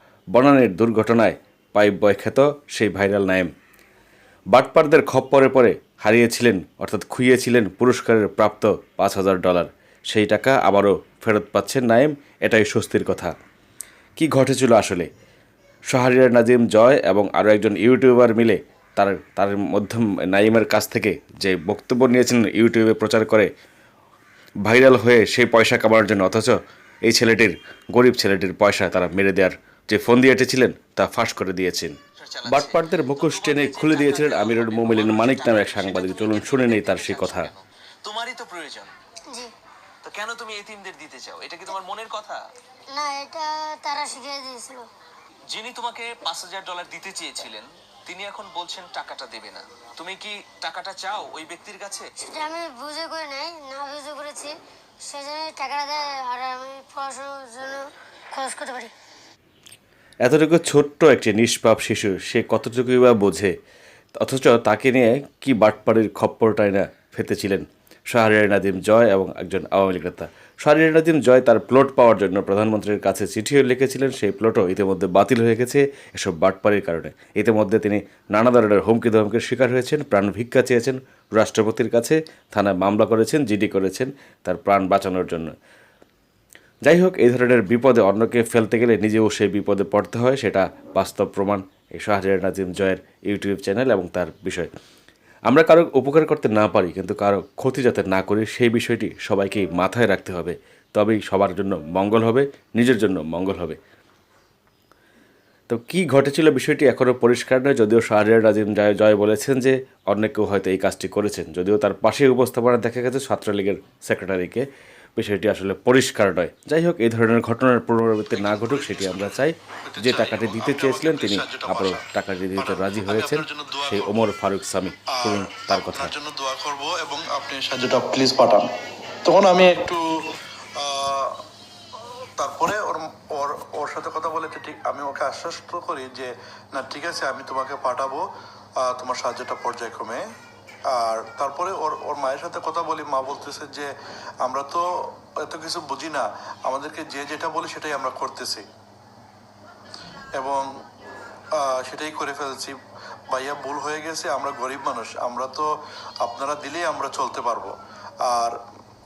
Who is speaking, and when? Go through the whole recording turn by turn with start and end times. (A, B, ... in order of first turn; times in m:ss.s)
0:00.3-0:03.5 A
0:04.5-0:13.3 A
0:14.2-0:15.1 A
0:15.9-0:23.5 A
0:24.6-0:37.5 A
0:32.2-0:38.9 B
0:40.0-0:42.4 B
0:42.9-0:44.9 C
0:45.5-0:52.1 B
0:52.2-0:58.9 C
1:00.2-1:03.5 A
1:04.2-1:25.5 A
1:26.8-1:34.7 A
1:35.5-1:43.8 A
1:45.7-1:54.7 A
1:55.2-2:06.1 A
1:58.3-2:02.0 D
2:02.6-2:04.1 D
2:05.2-2:08.7 D
2:09.2-2:10.0 D
2:10.8-2:11.4 D
2:12.4-2:18.2 D
2:18.8-2:20.2 D
2:20.9-2:23.9 D
2:24.4-2:28.6 D
2:30.4-2:30.7 D
2:31.6-2:32.8 D
2:33.3-2:35.7 D
2:36.2-2:38.6 D